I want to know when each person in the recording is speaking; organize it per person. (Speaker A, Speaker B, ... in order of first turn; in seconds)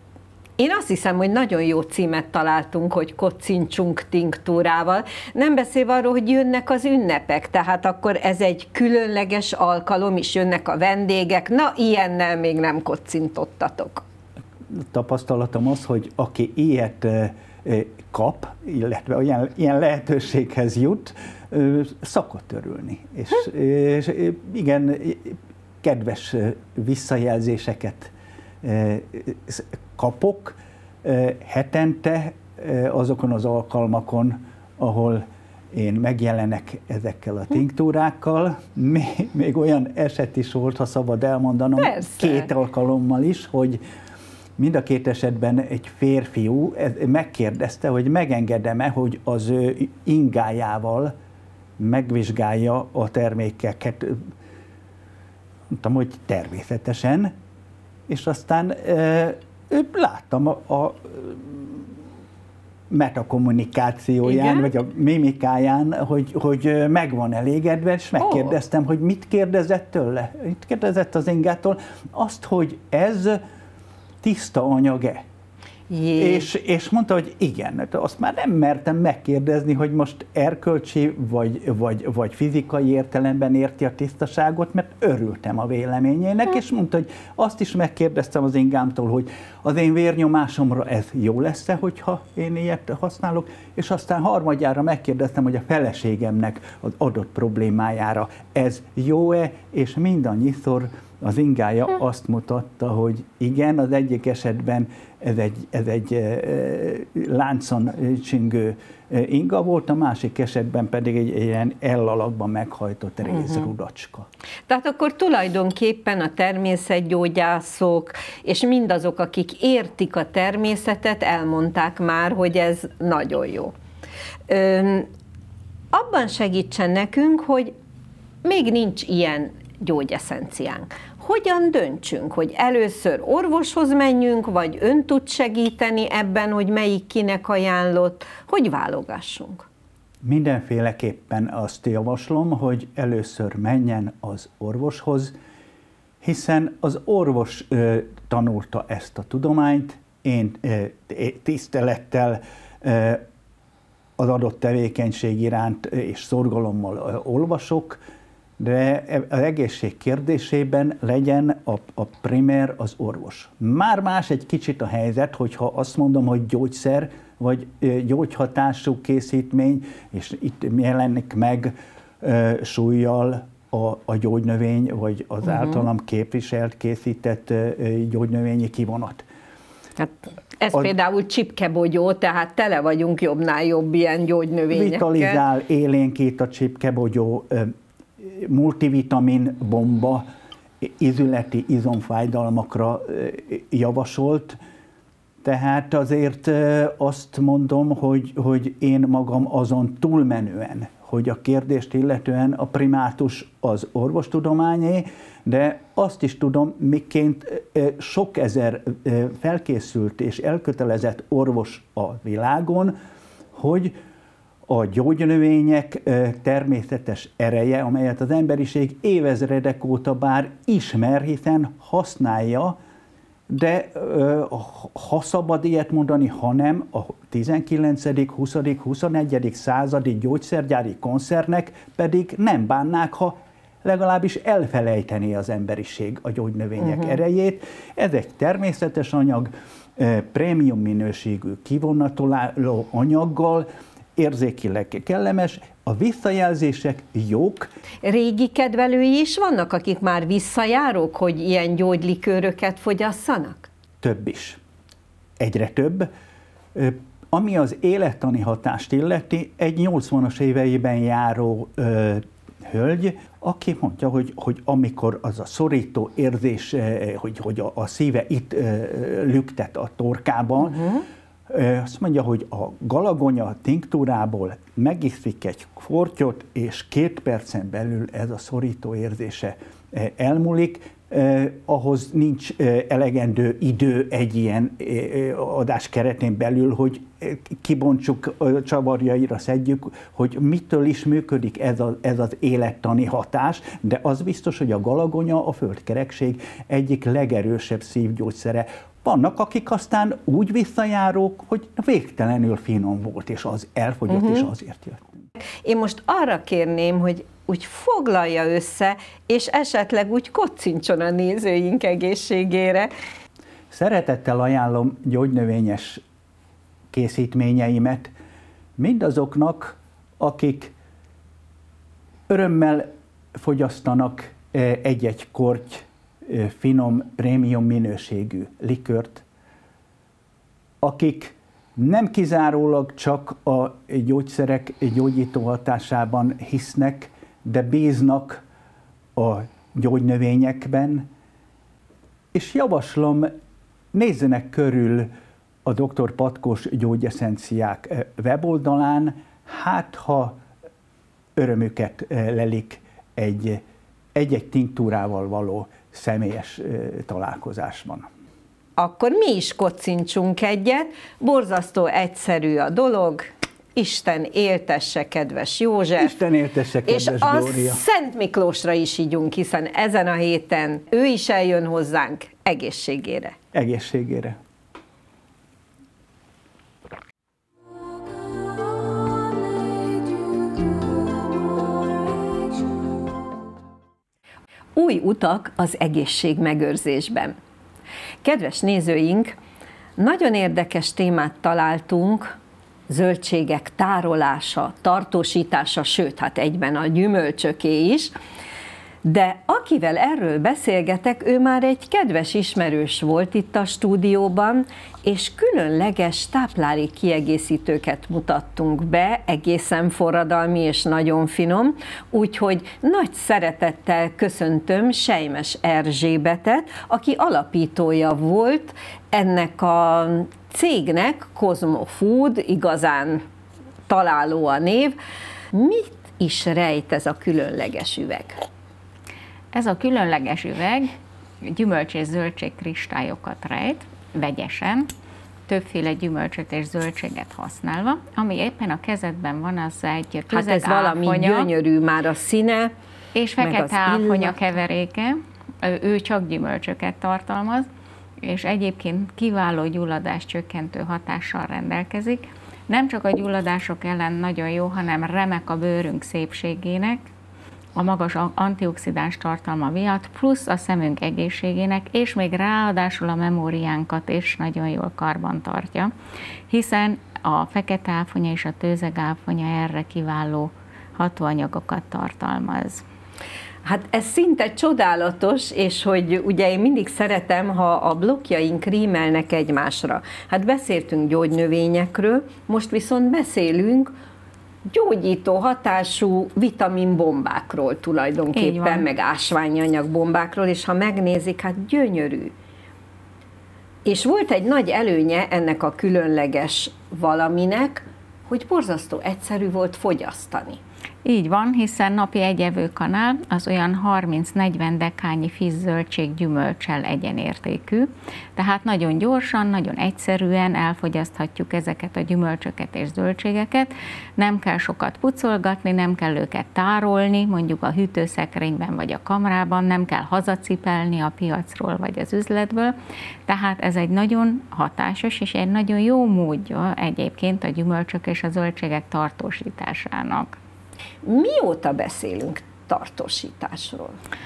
Speaker A: 0.6-14.0, 41.8-42.5, 64.3-64.7, 68.2-68.5, 75.9-76.5, 113.3-113.7, 114.7-123.7, 124.5-125.1, 125.9-127.7, 128.4-139.7, 180.0-185.4, 236.8-237.2, 248.0-253.7, 270.6-271.0, 304.1-304.5, 305.6-312.9, 358.8-366.1, 366.9-373.4, 384.8-387.4, 388.2-389.4, 390.0-392.3, 392.9-398.1, 399.0-423.2, 423.9-425.0, 425.5-428.4, 440.3-442.7, 443.4-444.5, 473.6-483.9, 484.6-492.3, 493.9-500.6, 531.0-534.0
Speaker B: 14.8-43.8, 44.6-51.1, 51.8-54.3, 55.7-57.3, 58.1-61.9, 62.9-73.4, 74.2-75.2, 76.2-114.3, 140.2-145.3, 146.2-153.2, 154.2-158.0, 158.6-179.2, 184.7-190.3, 190.8-194.6, 195.4-213.0, 213.6-214.0, 214.7-222.8, 223.5-247.7, 254.0-254.6, 255.4-256.1, 256.7-271.0, 271.5-305.2, 313.7-316.0, 316.9-318.1, 318.8-320.7, 322.3-329.2, 330.8-338.4, 339.1-341.1, 342.3-343.3, 343.9-345.1, 345.6-350.4, 351.4-353.6, 354.1-358.1, 366.0-367.8, 373.5-374.4
Speaker C: 429.5-434.9, 435.5-441.5, 443.1-447.7, 448.2-457.0, 457.8-465.9, 466.5-472.9, 488.3-488.9, 501.0-522.7, 523.3-530.4